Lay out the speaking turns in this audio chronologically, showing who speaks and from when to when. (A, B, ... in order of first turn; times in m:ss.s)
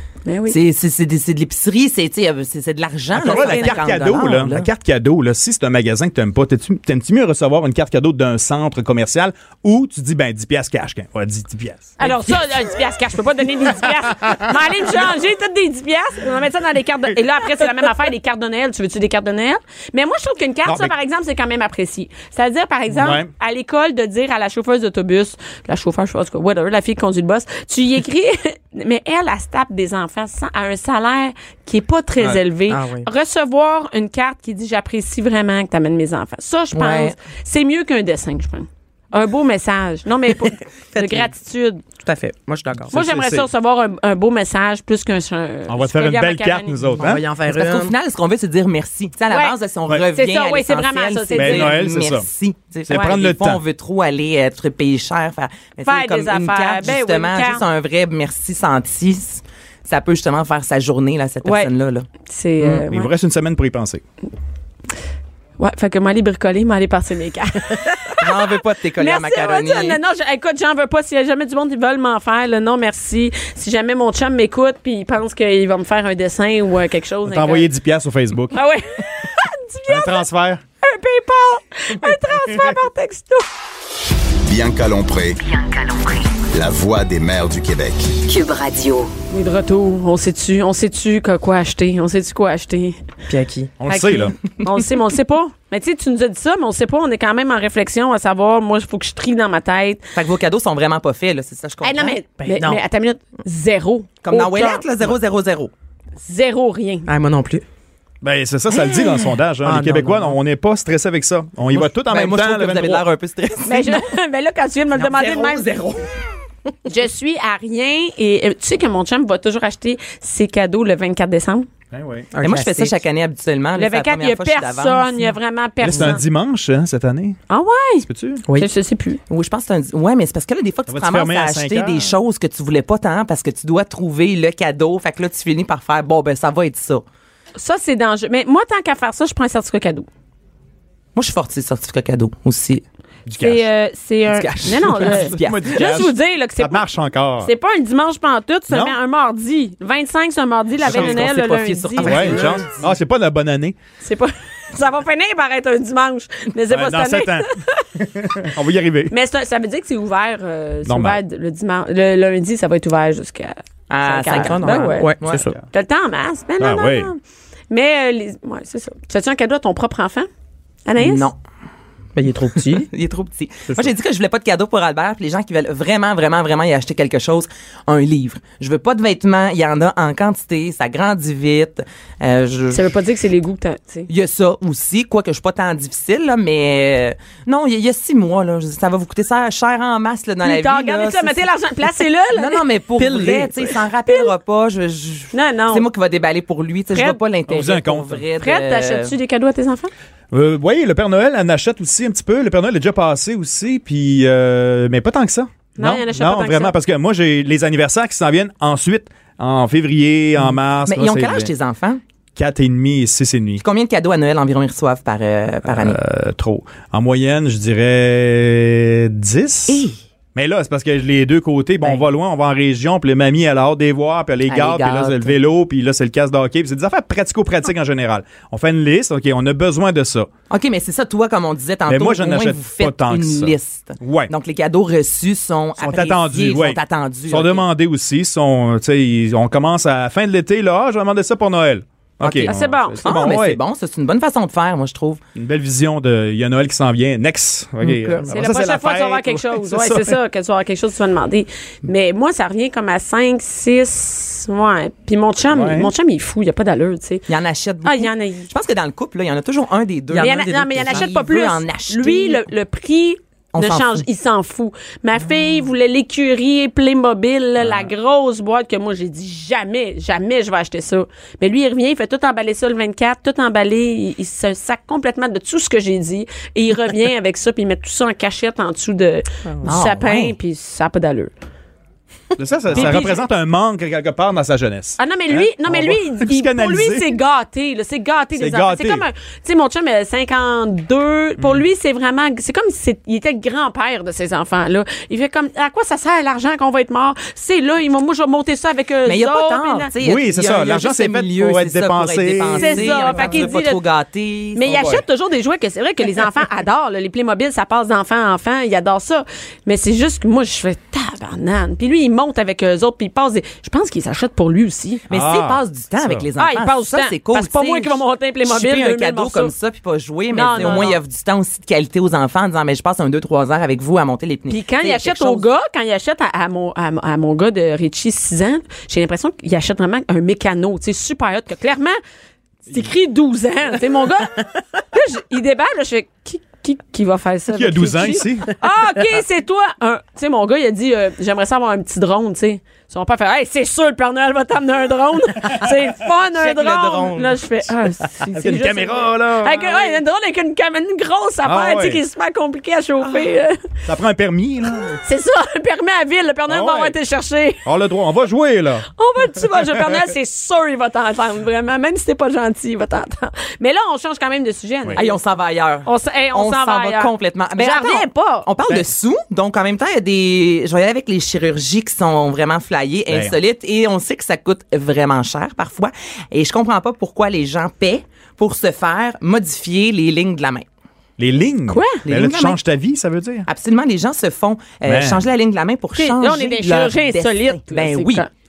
0:00.3-0:00.6 A
0:00.5-0:04.7 B
0:03.1-0:12.0 C
0:03.3-0:03.8 A
0:12.0-0:41.8 A
0:13.9-0:14.9 C
0:20.6-0:20.9 C
0:22.9-0:23.3 C
0:32.7-0:33.1 D
0:36.7-0:37.1 B
0:40.4-0:41.3 D
0:42.0-0:42.9 D
0:42.8-0:43.5 C
0:42.9-0:46.9 A
0:45.7-0:47.3 C
0:47.0-0:47.9 D
0:47.5-1:02.1 B
0:49.3-0:49.6 A
0:50.1-0:51.8 A
0:51.3-0:52.3 C
0:52.9-0:53.6 C
0:55.8-0:57.6 A
1:01.4-1:01.7 A
1:02.2-1:03.1 A
1:02.9-1:04.0 C
1:05.6-1:17.7 A
1:08.2-1:10.0 B
1:17.2-1:18.6 C
1:18.5-1:20.3 A
1:19.9-1:20.6 C
1:20.8-1:23.4 A
1:24.4-1:25.4 E
1:25.4-1:26.4 F
1:26.5-1:28.2 E
1:28.2-1:29.1 F
1:29.3-1:33.0 A
1:33.3-1:33.7 D
1:33.8-1:34.4 C
1:33.9-1:40.0 A
1:40.1-1:42.2 B
1:41.8-1:44.9 A
1:42.4-1:42.8 D
1:44.2-1:45.7 B
1:46.2-1:47.1 A
1:47.1-1:47.6 D
1:48.2-1:53.1 C
1:48.7-1:49.3 A
1:49.6-1:50.4 D
1:51.7-1:54.0 B
1:53.6-1:55.7 A
1:54.9-1:56.1 B
1:56.9-2:01.7 A
2:01.9-2:02.3 C
2:02.3-2:03.0 D
2:02.4-2:05.3 B
2:03.8-2:06.2 A
2:05.8-2:07.4 C
2:07.5-2:09.2 A
2:08.0-2:08.4 C
2:09.3-2:17.0 B
2:10.9-2:12.2 C
2:17.6-2:20.1 A
2:21.2-2:22.8 B
2:23.3-2:23.6 C
2:23.4-2:26.8 A
2:24.3-2:26.1 B
2:24.8-2:27.5 C
2:27.4-2:32.5 A
2:28.7-2:29.0 C
2:30.8-2:32.9 B
2:30.8-2:31.2 C
2:32.0-2:33.8 C
2:34.0-2:37.9 A
2:36.7-2:39.1 C
2:39.1-2:45.1 A
2:40.9-2:41.2 C
2:43.9-2:45.5 B
2:44.3-2:45.6 D
2:45.7-2:47.2 A
2:46.6-2:47.1 C
2:47.7-2:50.3 A
2:50.9-2:51.3 A
2:51.0-2:51.4 B
2:52.2-2:52.9 D
2:52.7-3:02.9 B
3:02.7-3:04.1 A
3:04.1-3:11.4 B
3:10.4-3:13.2 A
3:12.3-3:19.1 B
3:13.0-3:13.6 D
3:14.1-3:14.3 A
3:15.3-3:15.9 A
3:17.5-3:18.2 C
3:18.4-3:19.9 A
3:20.3-3:31.5 C
3:25.8-3:26.7 A
3:30.8-3:32.0 B
3:32.4-3:33.6 C
3:33.6-3:36.0 B
3:35.6-3:50.3 C
3:39.7-3:40.0 B
3:44.5-3:45.3 D
3:44.6-3:45.0 B
3:50.5-3:57.7 B
3:51.9-3:54.3 C
3:55.8-4:03.6 C
4:02.2-4:05.2 B
4:02.3-4:03.2 A
4:05.4-4:10.2 C
4:07.8-4:08.3 D
4:08.3-4:17.3 A
4:15.5-4:15.9 C
4:17.3-4:22.5 B
4:17.8-4:18.5 A
4:20.1-4:21.0 D
4:20.2-4:41.3 A
4:23.5-4:24.0 B
4:27.6-4:27.9 C
4:39.6-4:40.4 B
4:42.4-4:47.0 C
4:42.7-4:43.3 A
4:45.0-4:59.9 A
4:48.4-4:49.0 C
4:51.4-4:51.6 C
4:59.0-5:05.0 B
5:00.0-5:03.4 C
5:02.6-5:03.8 A
5:04.6-5:15.0 A
5:04.7-5:05.0 C
5:15.1-5:16.3 C
5:15.1-5:25.5 B
5:16.4-5:19.5 A
5:20.3-5:21.0 A
5:24.5-5:32.0 A
5:32.7-5:53.6 A
5:37.5-5:38.5 C
5:46.4-5:47.4 B
5:48.4-5:50.0 C
5:51.4-5:52.0 C
5:53.9-5:55.0 C
5:55.0-5:57.6 A
5:56.5-5:57.0 C
5:57.6-5:58.9 C
5:59.0-6:05.2 A
5:59.7-6:00.0 C
6:05.0-6:20.7 B
6:05.8-6:08.5 A
6:13.1-6:13.4 C
6:21.2-6:23.5 C
6:21.7-6:22.0 A
6:22.0-6:22.6 B
6:23.4-6:28.3 B
6:24.8-6:25.2 C
6:26.0-6:28.3 A